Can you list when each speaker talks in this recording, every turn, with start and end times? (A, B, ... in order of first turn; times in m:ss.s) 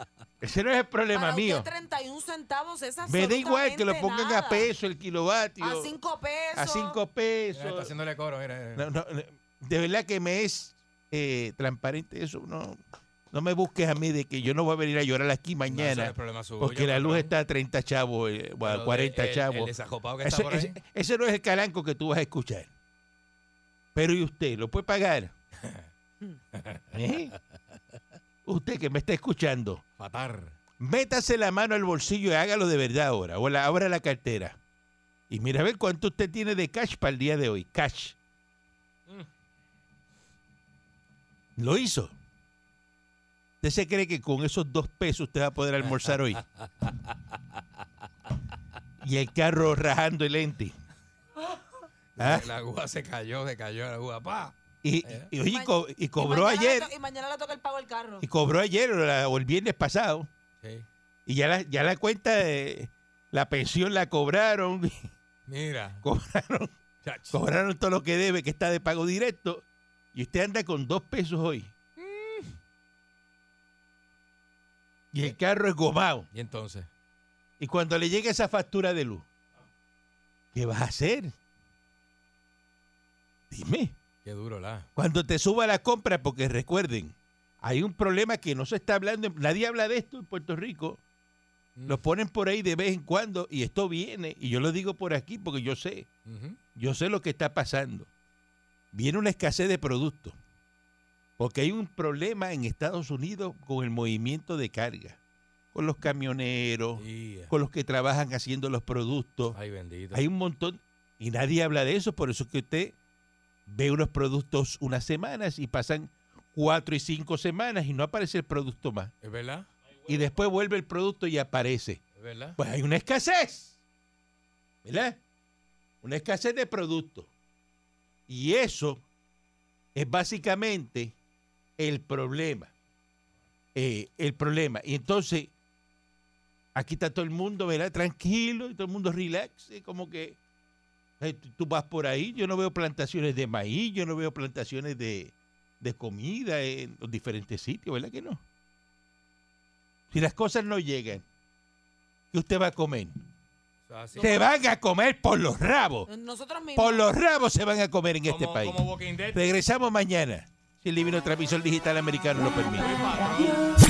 0:00.4-0:01.7 A
0:01.1-0:04.7 B
0:03.0-0:05.9 A
0:05.6-0:07.0 B
0:06.5-0:07.9 A
0:07.5-0:08.9 C
0:08.8-0:12.8 A
0:13.3-0:22.7 A
0:15.7-0:17.3 C
0:18.6-0:20.8 C
0:24.0-0:25.3 A
0:25.6-0:25.9 C
0:26.5-0:26.9 C
0:26.9-0:27.3 A
0:28.4-0:29.8 A
0:30.0-0:30.6 C
0:30.8-0:34.6 A
0:35.3-0:38.2 A
0:41.6-0:42.1 A
0:43.6-0:46.4 A
0:45.8-0:47.4 C
0:49.0-0:50.8 A
0:52.2-0:55.3 C
0:52.2-0:52.5 A
0:54.8-0:56.9 A
0:55.4-0:58.3 B
0:58.2-1:00.3 A
1:00.6-1:00.9 C
1:01.3-1:05.1 A
1:05.5-1:06.0 C
1:06.0-1:06.7 A
1:07.0-1:07.4 C
1:07.3-1:11.7 A
1:12.0-1:12.6 C
1:15.1-1:16.3 A
1:16.3-1:16.9 C
1:17.6-1:19.3 A
1:20.5-1:21.3 A
1:23.5-1:24.0 A
1:24.2-1:24.9 C
1:25.0-1:31.0 A
1:31.8-1:32.1 C
1:31.9-1:36.1 A
1:36.3-1:36.6 C
1:36.8-1:38.1 A
1:38.9-1:40.4 A
1:41.4-1:45.2 A
1:45.7-1:49.6 A
1:47.0-1:47.5 C
1:49.5-1:50.2 C
1:50.1-1:53.0 A
1:53.7-1:59.1 A
1:59.2-1:59.7 C
2:00.1-2:02.0 A
2:02.2-2:02.6 C
2:02.6-2:03.8 A
2:04.8-2:05.2 A
2:06.0-2:07.3 A
2:08.3-2:09.0 A
2:10.0-2:11.2 A
2:11.8-2:12.7 A
2:13.8-2:15.5 A
2:16.8-2:20.4 A
2:21.2-2:28.4 A
2:30.1-2:31.2 A
2:32.3-2:33.2 A
2:33.9-2:34.3 C
2:34.2-2:36.1 A
2:36.1-2:37.0 B
2:36.8-2:43.0 A
2:38.2-2:39.4 C
2:42.8-2:43.7 C